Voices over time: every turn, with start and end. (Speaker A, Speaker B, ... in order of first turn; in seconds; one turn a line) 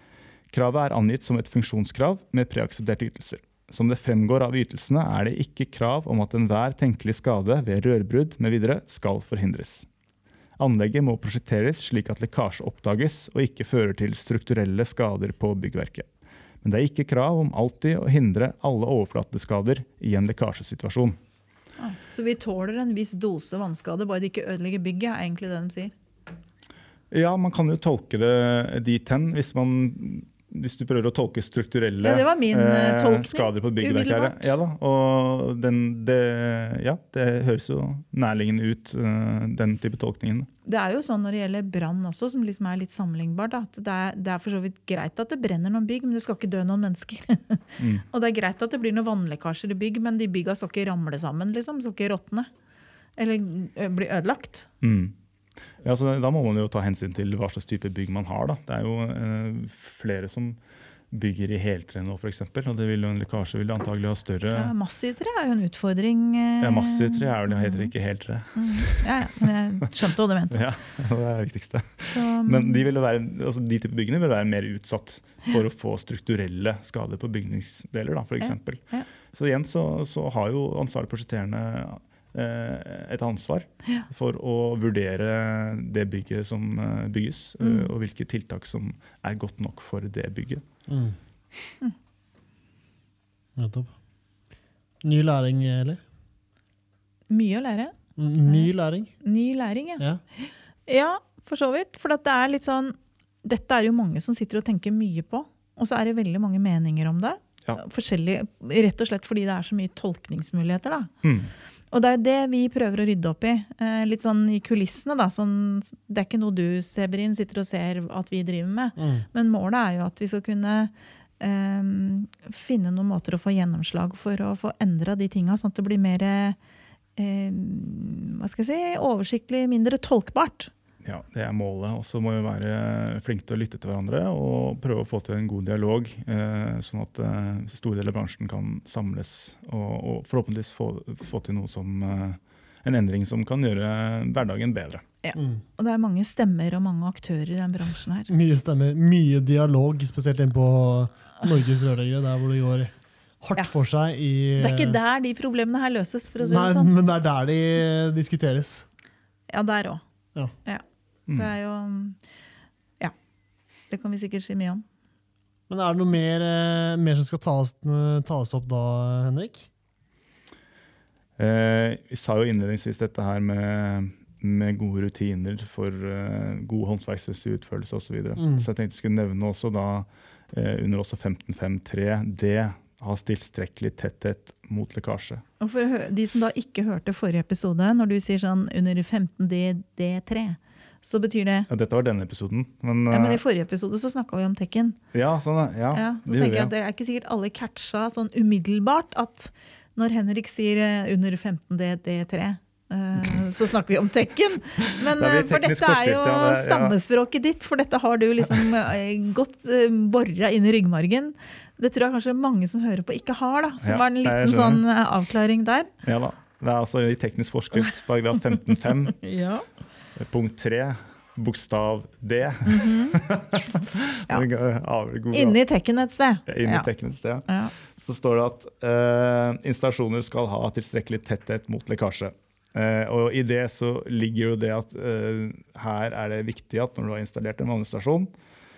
Speaker A: 0.5-9.8
Speaker A: 10.6-16.1
Speaker A: 16.6-21.1
Speaker B: 21.8-25.9
Speaker A: 27.1-40.5
Speaker B: 32.0-34.5
Speaker B: 40.6-52.5
Speaker A: 47.8-48.0
Speaker B: 53.2-54.7
Speaker A: 54.8-55.1
Speaker A: 55.8-60.6
Speaker A: 61.1-64.7
Speaker B: 64.5-67.9
Speaker A: 66.6-69.5
Speaker B: 68.5-70.6
Speaker A: 70.5-90.6
Speaker B: 72.1-72.8
Speaker B: 78.4-79.1
Speaker B: 87.6-87.9
Speaker C: 90.9-91.2
Speaker C: 93.6-93.9
Speaker C: 95.0-96.0
Speaker B: 97.3-97.9
Speaker C: 98.2-99.1
Speaker B: 99.2-111.1
Speaker A: 111.2-111.5
Speaker B: 111.9-126.6
Speaker C: 119.0-119.3
Speaker B: 127.2-130.7
Speaker A: 131.0-145.0
Speaker B: 145.2-148.3
Speaker C: 145.3-145.6
Speaker C: 148.3-155.0
Speaker B: 154.6-156.9
Speaker C: 156.4-158.8
Speaker B: 159.5-160.0
Speaker B: 160.6-162.2
Speaker A: 161.3-161.5
Speaker B: 163.9-164.8
Speaker C: 165.7-169.7
Speaker A: 171.4-185.4
Speaker C: 178.4-178.7
Speaker B: 185.6-191.7
Speaker A: 191.7-193.4
Speaker B: 193.1-195.0
Speaker A: 195.1-196.7
Speaker B: 195.9-215.9
Speaker A: 204.8-206.9
Speaker A: 213.8-214.8
Speaker A: 216.0-219.2
Speaker B: 219.2-219.6
Speaker A: 220.2-225.6
Speaker B: 222.6-223.2
Speaker B: 225.3-226.9
Speaker A: 226.5-238.3